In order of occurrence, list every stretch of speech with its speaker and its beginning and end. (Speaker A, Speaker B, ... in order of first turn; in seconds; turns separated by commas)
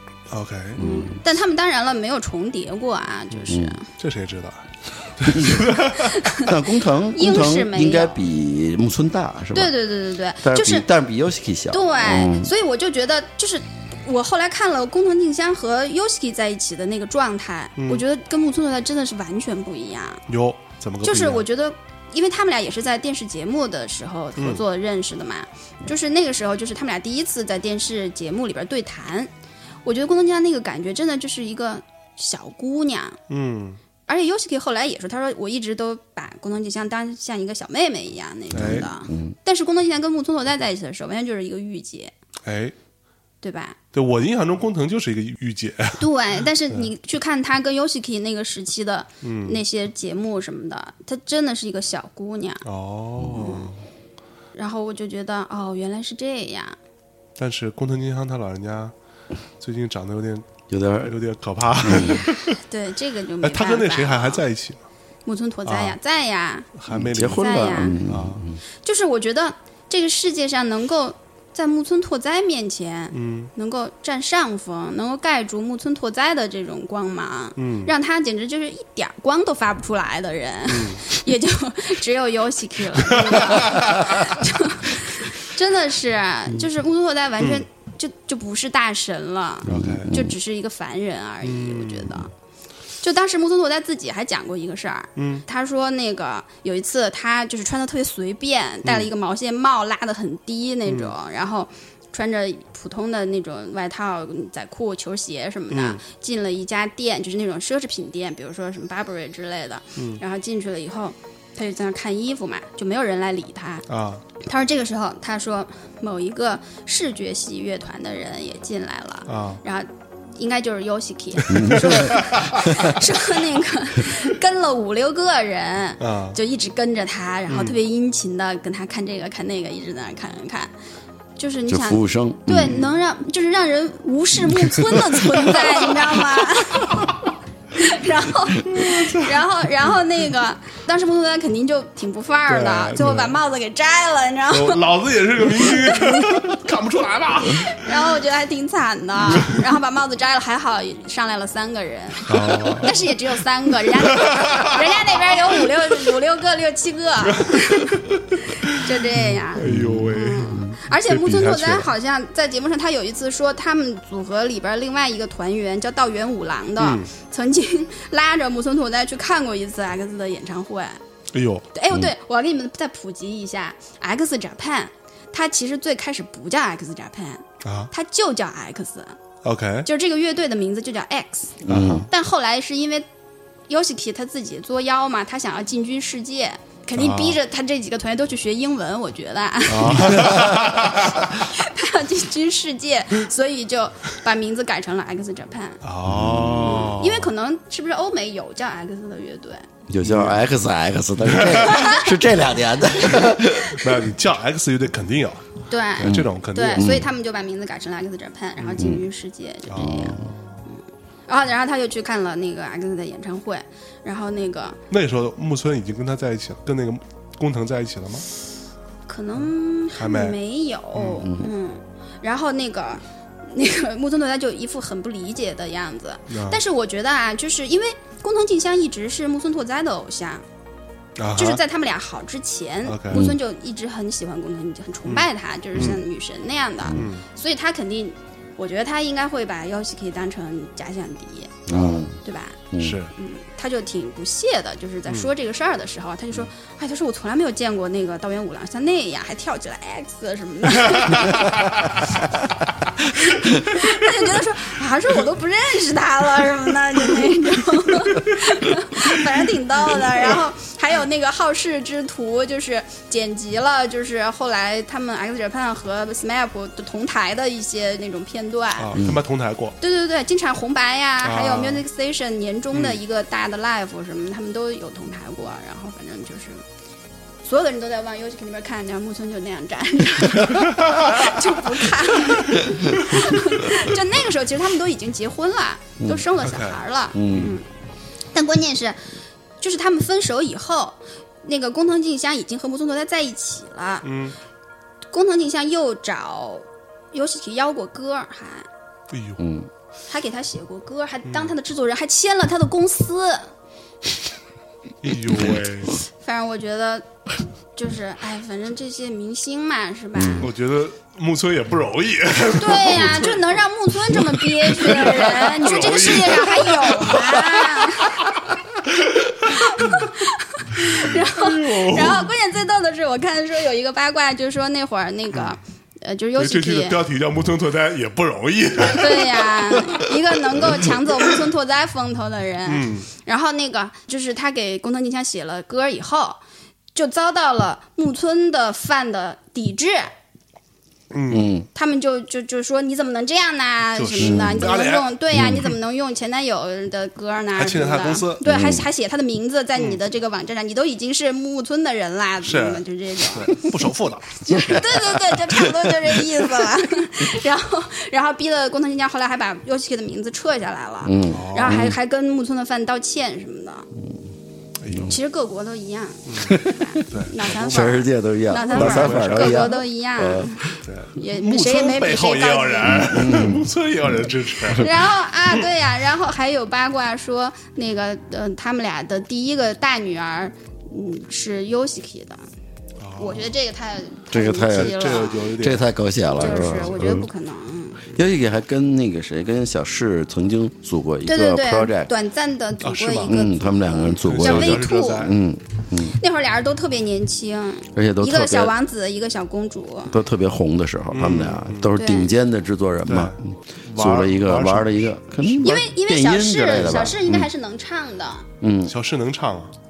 Speaker A: 0.3-0.8, Speaker B: 0.8-1.2, Speaker C: 0.8-3.9, Speaker B: 3.5-3.8, Speaker A: 3.9-6.3, Speaker B: 5.3-5.7, Speaker C: 6.0-6.5, Speaker B: 6.4-9.8, Speaker C: 7.1-8.2, Speaker C: 9.5-10.9, Speaker B: 10.4-12.5, Speaker C: 11.7-20.2, Speaker A: 17.8-18.0, Speaker A: 20.3-21.4, Speaker C: 21.0-29.3, Speaker A: 24.4-24.6, Speaker C: 29.8-33.2, Speaker A: 33.3-33.8, Speaker C: 34.1-42.1, Speaker B: 38.5-39.3, Speaker A: 38.5-38.9, Speaker A: 42.5-42.7, Speaker C: 43.4-43.8, Speaker A: 43.9-46.9, Speaker C: 46.0-52.6, Speaker A: 49.2-49.6, Speaker A: 52.6-53.8, Speaker C: 53.3-53.7, Speaker C: 54.5-56.8, Speaker A: 57.4-58.9, Speaker A: 59.6-60.5, Speaker B: 60.7-61.1, Speaker A: 61.0-62.6, Speaker B: 61.8-62.2, Speaker C: 62.6-64.4, Speaker A: 63.4-64.8, Speaker C: 65.2-66.7, Speaker A: 65.6-66.0, Speaker A: 66.7-68.4, Speaker B: 66.9-68.6, Speaker C: 67.2-68.0, Speaker C: 68.8-92.3, Speaker A: 73.1-73.5, Speaker A: 77.6-77.9, Speaker A: 80.7-81.1, Speaker A: 83.0-84.3, Speaker A: 89.7-90.1, Speaker B: 89.7-90.3, Speaker A: 91.4-92.2, Speaker C: 93.0-113.8, Speaker A: 95.2-95.4, Speaker A: 98.8-99.1, Speaker A: 100.8-101.1, Speaker A: 105.7-106.0, Speaker A: 113.9-114.2, Speaker C: 114.4-130.7, Speaker A: 119.3-119.6, Speaker A: 121.4-122.7, Speaker B: 121.5-122.9, Speaker A: 126.0-126.4, Speaker A: 127.5-127.8, Speaker C: 131.4-137.2, Speaker B: 131.7-132.8, Speaker A: 135.5-136.2, Speaker A: 136.7-137.3, Speaker C: 137.7-144.8, Speaker A: 138.7-139.4, Speaker A: 142.5-143.4, Speaker A: 144.5-148.1, Speaker C: 145.4-146.6, Speaker C: 147.5-171.0, Speaker A: 149.3-149.6, Speaker A: 152.3-153.1, Speaker A: 153.9-155.5, Speaker A: 157.3-158.8, Speaker A: 159.5-161.9, Speaker B: 159.6-160.7, Speaker A: 166.8-167.1, Speaker A: 171.3-171.7, Speaker C: 171.7-179.2, Speaker A: 177.6-177.9, Speaker A: 179.4-179.9, Speaker C: 179.8-183.1, Speaker B: 181.6-182.1, Speaker A: 181.7-182.1, Speaker C: 183.7-195.8, Speaker A: 186.9-187.4, Speaker A: 189.7-191.3, Speaker B: 189.9-190.8, Speaker A: 195.8-197.3, Speaker B: 196.0-196.9, Speaker C: 196.6-199.7, Speaker B: 199.9-204.0, Speaker A: 200.0-200.5, Speaker A: 201.2-202.0, Speaker C: 201.7-202.0, Speaker A: 203.1-207.0, Speaker C: 205.7-214.8, Speaker B: 206.0-207.1, Speaker A: 208.6-209.0, Speaker A: 209.7-210.7, Speaker B: 209.8-210.3, Speaker A: 214.9-218.2, Speaker C: 219.1-230.4, Speaker A: 220.0-220.4, Speaker A: 220.9-221.3, Speaker B: 221.2-221.5, Speaker A: 226.3-226.6, Speaker A: 231.2-231.6, Speaker C: 231.3-241.7, Speaker A: 232.8-233.3, Speaker B: 233.1-233.4, Speaker A: 235.0-236.0, Speaker A: 236.9-237.2, Speaker B: 241.7-242.2, Speaker A: 241.7-242.0, Speaker C: 242.2-242.6, Speaker B: 242.7-243.0, Speaker A: 242.8-243.1, Speaker C: 243.1-251.5, Speaker A: 250.8-251.9, Speaker C: 253.2-268.9, Speaker A: 253.4-253.9, Speaker A: 268.8-269.8, Speaker B: 268.9-269.2, Speaker C: 269.8-276.6, Speaker A: 271.2-271.8, Speaker C: 277.4-287.6, Speaker A: 280.8-281.4, Speaker B: 286.0-286.3, Speaker A: 286.4-287.5, Speaker B: 287.1-287.6, Speaker C: 288.3-294.1, Speaker A: 294.0-294.4, Speaker C: 295.1-298.7, Speaker A: 299.1-299.4, Speaker B: 299.4-299.7, Speaker C: 300.1-303.5, Speaker A: 301.2-301.5, Speaker A: 305.0-306.0, Speaker C: 306.2-307.1, Speaker C: 307.8-310.5, Speaker B: 310.1-310.5, Speaker A: 310.4-320.1, Speaker C: 312.6-318.3, Speaker C: 319.5-327.0, Speaker A: 320.8-322.3, Speaker A: 325.3-325.6, Speaker A: 326.4-331.4, Speaker C: 328.8-336.4, Speaker A: 332.7-333.1, Speaker C: 336.9-340.1, Speaker A: 341.1-341.5, Speaker B: 341.3-341.7, Speaker C: 341.7-353.6, Speaker A: 343.9-345.7, Speaker B: 344.2-344.8, Speaker B: 345.3-345.7, Speaker A: 347.6-348.4, Speaker B: 348.4-348.9, Speaker A: 352.4-355.6, Speaker C: 354.4-363.9, Speaker B: 354.5-354.8, Speaker B: 361.0-361.9, Speaker A: 361.3-361.8, Speaker A: 364.8-365.1, Speaker C: 365.0-370.6, Speaker A: 366.3-366.5, Speaker B: 366.5-367.0, Speaker A: 367.1-368.0, Speaker B: 367.6-370.7, Speaker A: 368.5-369.8, Speaker A: 370.8-375.0, Speaker C: 371.1-373.1, Speaker B: 372.9-373.6, Speaker C: 374.8-382.4, Speaker A: 383.0-383.5, Speaker C: 383.2-385.5, Speaker B: 384.3-387.3, Speaker A: 384.7-387.0, Speaker C: 386.2-388.1, Speaker B: 388.1-392.1, Speaker C: 391.2-395.3, Speaker A: 392.8-393.3, Speaker B: 393.2-396.2, Speaker A: 394.1-395.3, Speaker C: 396.0-400.1, Speaker B: 397.9-398.7, Speaker B: 400.1-407.5, Speaker A: 401.1-401.9, Speaker C: 401.9-402.3, Speaker A: 403.1-404.9, Speaker C: 405.6-408.5, Speaker B: 408.6-408.9, Speaker A: 408.9-409.7